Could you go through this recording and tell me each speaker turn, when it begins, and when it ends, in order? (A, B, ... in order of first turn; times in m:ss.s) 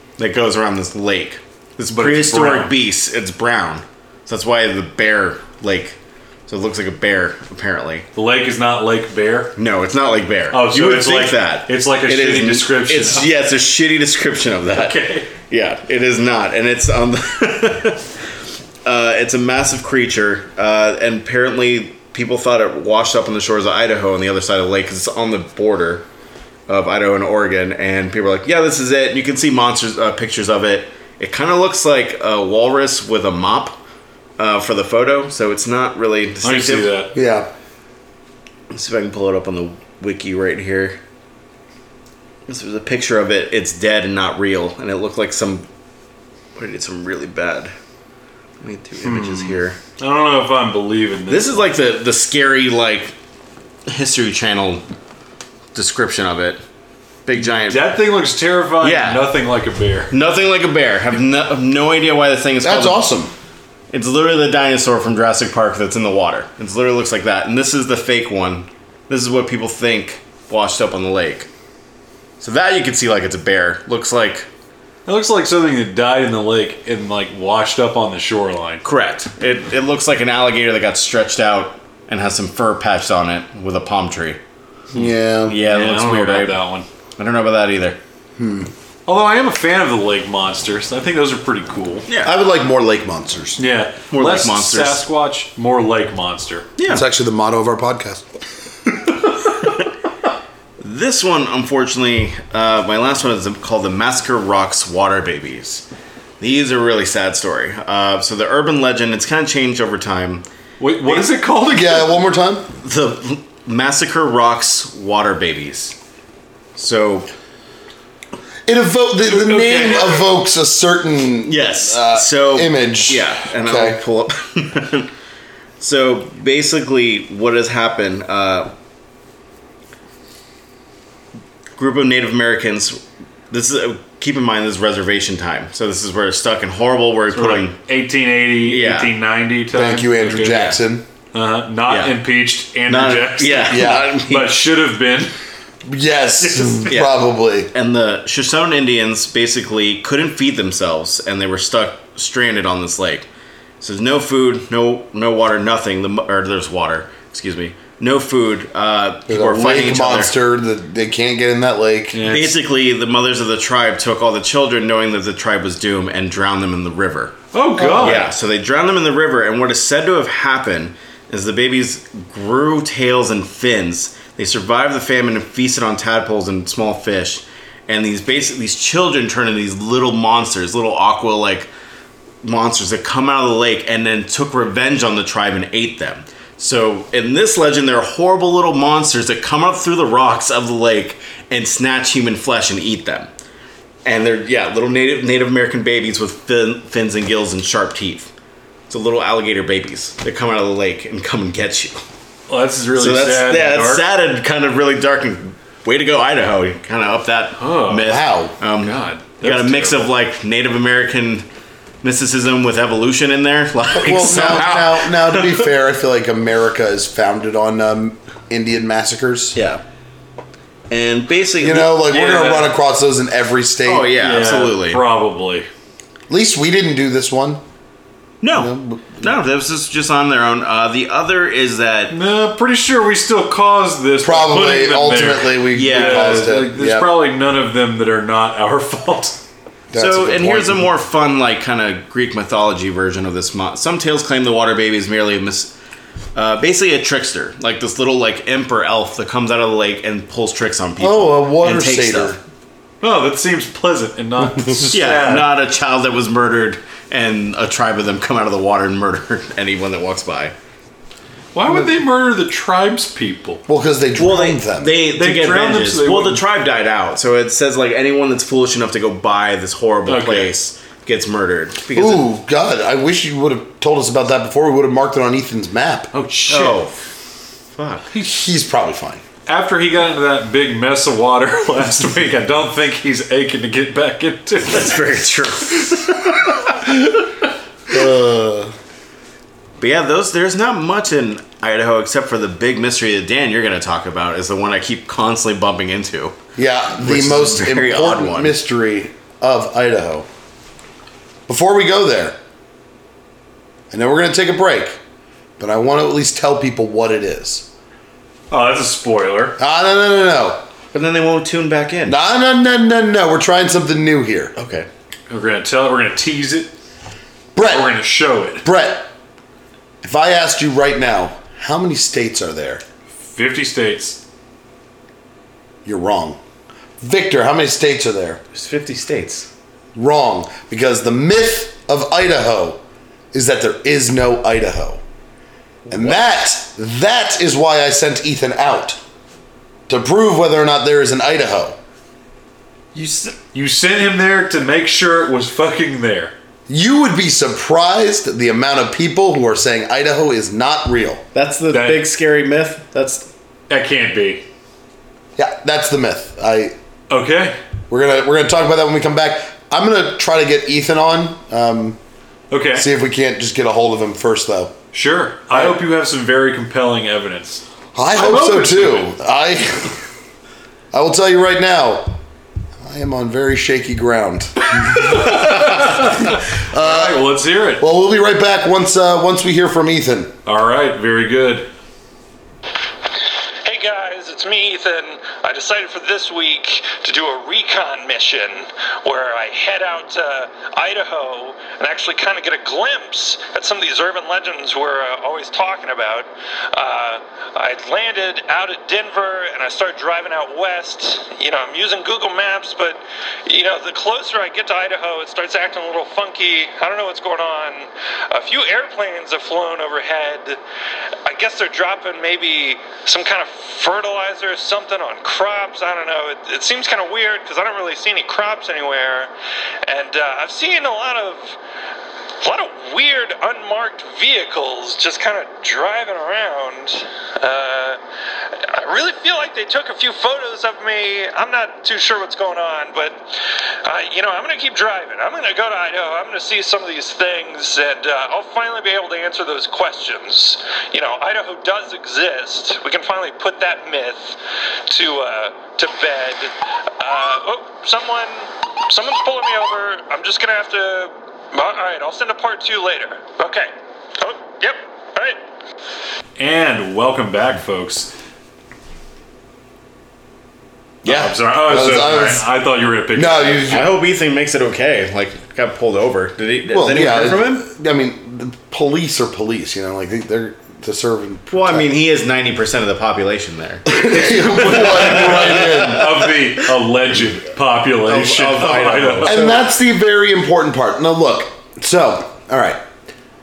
0:00.2-0:08.1 A
0:01.9-0:02.7 B
0:08.2-0:09.5 B
0:09.6-0:18.1 A
0:10.5-0:13.3 B
0:14.7-0:15.3 B
0:18.8-0:26.0 A
0:26.7-0:33.8 A
0:34.4-0:37.0 A
0:36.4-0:37.1 B
0:37.1-0:37.5 C
0:38.7-0:41.0 A
0:42.5-0:45.7 A
0:46.6-0:47.7 A
0:48.6-0:49.8 A
0:49.0-0:51.7 B
0:51.3-0:53.2 A
0:53.9-0:54.8 A
0:55.8-0:56.6 A
0:57.2-0:58.0 A
0:57.6-1:00.1 B
0:58.8-0:59.3 A
1:00.1-1:03.1 A
1:02.6-1:03.3 C
1:03.9-1:11.5 A
1:12.4-1:14.5 A
1:15.1-1:18.8 B
1:18.8-1:24.4 A
1:24.9-1:25.6 C
1:25.5-1:26.6 A
1:25.6-1:26.9 B
1:27.2-1:28.0 A
1:28.4-1:28.7 C
1:29.1-1:32.1 B
1:32.1-1:32.3 A
1:32.2-1:33.6 C
1:33.6-1:36.7 B
1:34.1-1:35.0 A
1:36.8-1:37.0 A
1:36.9-1:38.3 C
1:40.8-1:45.9 A
1:46.4-1:50.5 A
1:50.8-1:52.2 B
1:51.0-1:51.3 A
1:51.7-1:52.7 C
1:52.8-1:56.0 A
1:56.8-1:57.3 A
1:58.7-2:04.0 C
1:59.3-2:00.2 B
2:01.5-2:05.1 A
2:05.8-2:08.7 A
2:11.8-2:17.8 A
2:17.3-2:20.8 B
2:18.6-2:19.1 A
2:19.7-2:21.1 C
2:21.3-2:25.3 B
2:21.9-2:22.2 A
2:22.9-2:24.6 A
2:23.7-2:24.1 C
2:25.8-2:27.7 C
2:26.4-2:26.9 B
2:26.9-2:27.2 A
2:27.7-2:33.3 A
2:33.8-2:40.4 A
2:39.3-2:42.2 C
2:42.1-2:42.6 B
2:42.2-2:47.4 A
2:47.5-2:48.3 B
2:47.8-2:48.2 C
2:48.0-3:01.7 A
3:02.4-3:13.3 A
3:14.0-3:18.3 A
3:18.9-3:22.0 A
3:22.5-3:24.0 B
3:22.9-3:31.5 A
3:27.6-3:28.2 B
3:28.1-3:28.6 C
3:28.8-3:30.1 B
3:32.0-3:35.7 A
3:34.0-3:39.6 C
3:39.6-3:39.8 A
3:40.9-3:42.3 A
3:41.6-3:44.1 C
3:42.1-3:42.7 B
3:43.8-3:45.0 A
3:44.2-3:45.7 B
3:46.3-3:47.6 C
3:48.4-3:52.2 A
3:48.5-3:49.3 C
3:52.1-3:59.4 B
3:54.2-3:57.1 C
3:55.7-3:56.5 A
3:59.9-4:00.9 C
4:00.0-4:05.7 A
4:06.4-4:12.4 A
4:11.0-4:12.4 C
4:13.0-4:15.5 B
4:14.9-4:20.5 A
4:21.5-4:23.6 B
4:21.7-4:22.0 C
4:23.7-4:24.9 C
4:24.2-4:32.2 A
4:25.2-4:26.4 B
4:30.1-4:30.5 B
4:32.0-4:36.1 C
4:36.1-4:36.8 B
4:36.5-4:37.0 A
4:37.7-4:38.1 A
4:38.2-4:39.2 C
4:39.5-4:45.0 B
4:44.6-4:46.7 A
4:47.9-4:48.8 C
4:49.8-4:56.4 A
4:56.6-5:00.3 C
4:56.9-4:58.6 A
5:01.5-5:02.4 C
5:03.9-5:05.0 C
5:05.6-5:07.7 C
5:08.5-5:09.6 B
5:09.6-5:10.6 C
5:10.9-5:12.2 A
5:12.1-5:14.5 C
5:14.6-5:14.9 A
5:15.3-5:16.7 B
5:17.6-5:17.9 C
5:17.6-5:18.6 B
5:18.6-5:19.1 C
5:20.0-5:22.8 C
5:23.2-5:24.2 B
5:25.8-5:26.4 C
5:27.0-5:28.4 C
5:28.5-5:29.5 A
5:30.0-5:32.8 C
5:33.3-5:35.0 C
5:35.9-5:36.2 A
5:35.9-5:39.0 C
5:39.9-5:41.8 C
5:42.9-5:43.4 A
5:43.5-5:46.3 B
5:46.7-5:51.2 C
5:51.3-5:53.3 A
5:51.7-5:52.0 B
5:53.7-5:54.4 B
5:55.4-5:56.8 C
5:57.1-5:57.6 B
5:57.9-6:02.0 C
6:02.5-6:02.9 B
6:02.8-6:04.7 C
6:04.9-6:07.6 B
6:05.5-6:05.8 C
6:08.0-6:10.0 C
6:08.2-6:09.1 B
6:10.9-6:12.2 C
6:12.8-6:17.2 C
6:14.9-6:17.8 B
6:17.8-6:20.3 C
6:20.5-6:21.7 B
6:23.6-6:50.6 D
6:51.3-6:59.3 D
6:59.9-7:01.6 D
7:02.4-7:08.0 D
7:08.6-7:13.2 D
7:13.8-7:35.4 D
7:36.4-7:38.1 B
7:41.0-7:42.5 C
7:41.0-7:43.7 B
7:43.1-7:43.9 C
7:43.7-7:47.6 A
7:46.7-7:51.9 C
7:51.5-7:56.5 A
7:53.9-7:56.2 C
7:54.1-7:59.5 B
7:58.0-7:59.6 A
7:59.2-8:02.8 C